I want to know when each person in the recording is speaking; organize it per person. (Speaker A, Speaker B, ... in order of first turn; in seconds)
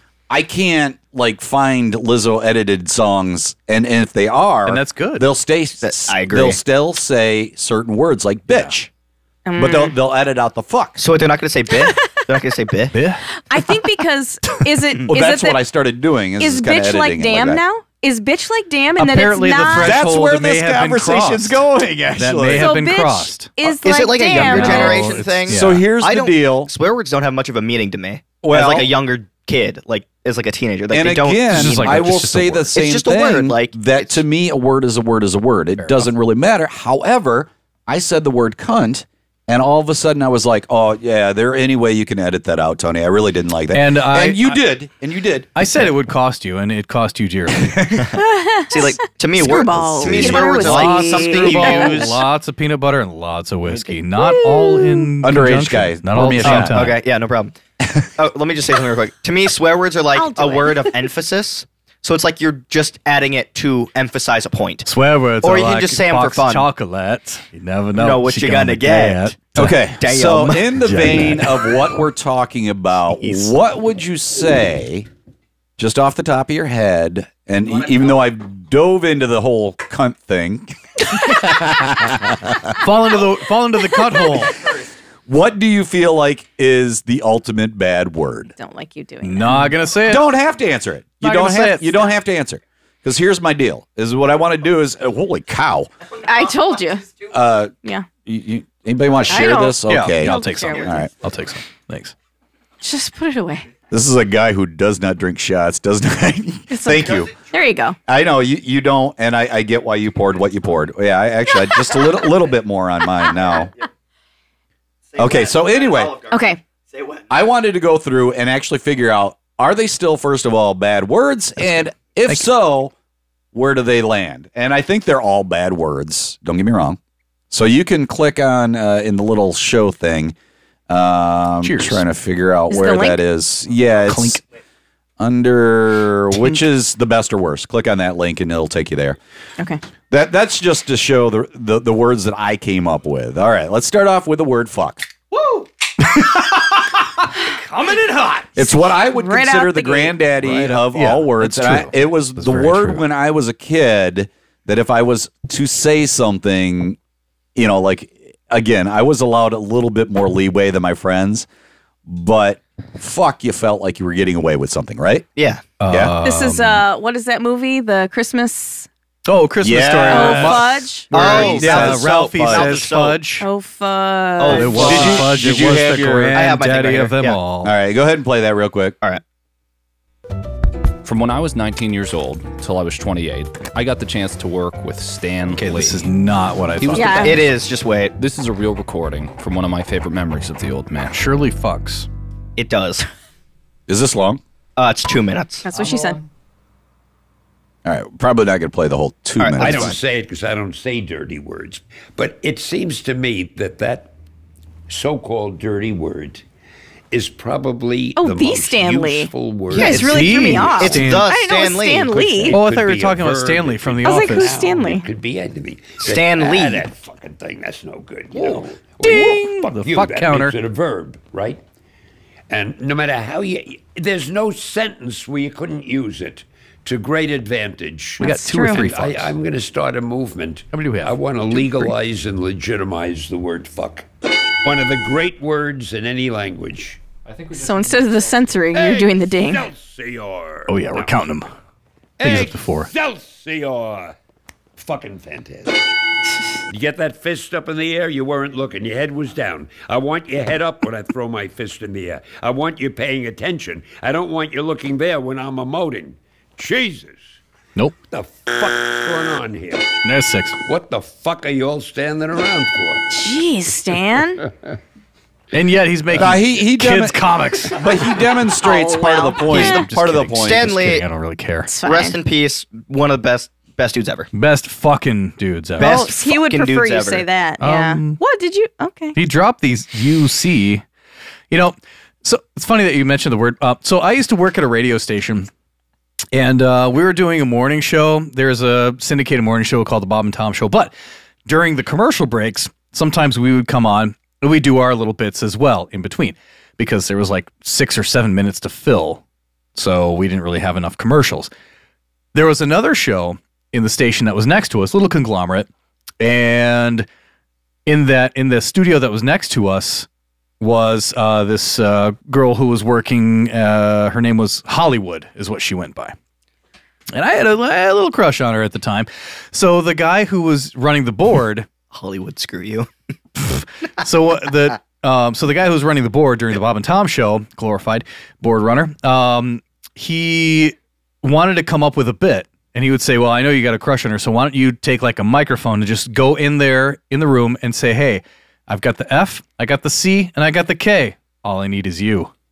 Speaker A: 0.3-8.9, 9.6-11.0, 15.1-17.6, 19.8-22.7, 25.5-26.7, 28.4-28.9, 30.9-45.5, 50.0-50.5, 55.2-56.8, 69.5-75.1, 75.8-80.8, 81.5-82.5, 85.3-88.5, 90.1-95.9, 97.3-97.7, 98.2-101.1, 103.9-107.3, 108.1-113.7, 115.2-116.2, 117.3-122.9, 123.5-127.0, 127.5-130.3, 130.9-134.4, 135.2-139.2, 140.1-145.1, 148.6-157.0, 157.6-161.4, 162.1-165.2, 165.9-166.1, 169.6-172.8, 174.8-176.4, 177.6-178.9, 193.9-194.4, 197.8-200.0, 266.1-270.6
Speaker B: 4.7-5.2, 12.9-13.2, 19.0-23.5, 24.3-25.8, 31.5-32.7, 35.8-36.1, 43.7-44.6, 45.5-48.0, 50.0-57.0, 64.8-69.8, 70.8-71.6, 82.8-84.7, 89.2-90.3, 91.2-92.1, 99.9-102.1, 131.6-132.0, 134.0-134.4, 145.3-148.6, 150.4-153.1, 165.8-166.8, 169.2-173.5, 174.4-177.7, 185.5-187.5, 191.1-192.1, 209.8-211.3, 212.5-214.6, 218.3-220.6, 228.2-229.3, 230.7-231.9, 240.7-241.5, 242.2-242.9, 260.0-260.6, 265.5-267.8, 269.4-271.7, 274.3-276.1, 277.6-278.2, 279.1-280.8, 281.5-285.5, 286.3-290.9, 291.4-299.2, 299.8-301.5, 302.3-305.7, 306.2-307.1, 307.9-310.1, 310.6-316.1, 317.1-321.7, 323.4-342.3
Speaker C: 5.8-6.6, 11.0-12.9, 23.8-34.2, 47.9-52.2, 56.4-57.6, 58.1-64.9, 65.4-66.7, 68.0-70.9, 73.2-73.5, 115.1-117.2, 165.3-165.6, 171.1-173.2, 174.4-175.3, 176.3-177.4, 187.2-188.1, 192.6-193.1, 194.8-195.7, 199.4-200.0, 209.7-212.5, 216.0-216.9, 270.4-271.0, 271.8-274.3, 275.8-277.3, 321.9-322.9
Speaker D: 9.4-9.9, 13.5-15.6, 16.4-20.0, 22.6-25.1, 48.1-52.2, 54.3-55.0, 60.1-61.0, 88.6-89.8, 96.2-97.1, 99.3-101.0, 102.8-103.7, 106.7-108.0, 116.3-116.6, 132.7-133.2, 149.0-150.2, 166.2-168.9, 170.1-171.1, 173.4-175.0, 186.9-187.4, 195.6-196.2, 208.2-212.6, 214.0-215.1, 228.2-228.9, 237.5-239.7, 263.1-264.4, 268.6-269.9, 271.7-272.1, 275.8-279.1
Speaker E: 181.0-186.1, 186.8-187.4, 188.2-191.2
Speaker F: 199.6-204.1, 204.9-206.4, 207.1-211.0, 212.3-221.6, 222.5-234.1, 234.6-237.0, 238.7-241.2, 242.2-244.1, 244.8-245.8, 246.7-257.3, 258.1-260.0, 260.6-263.1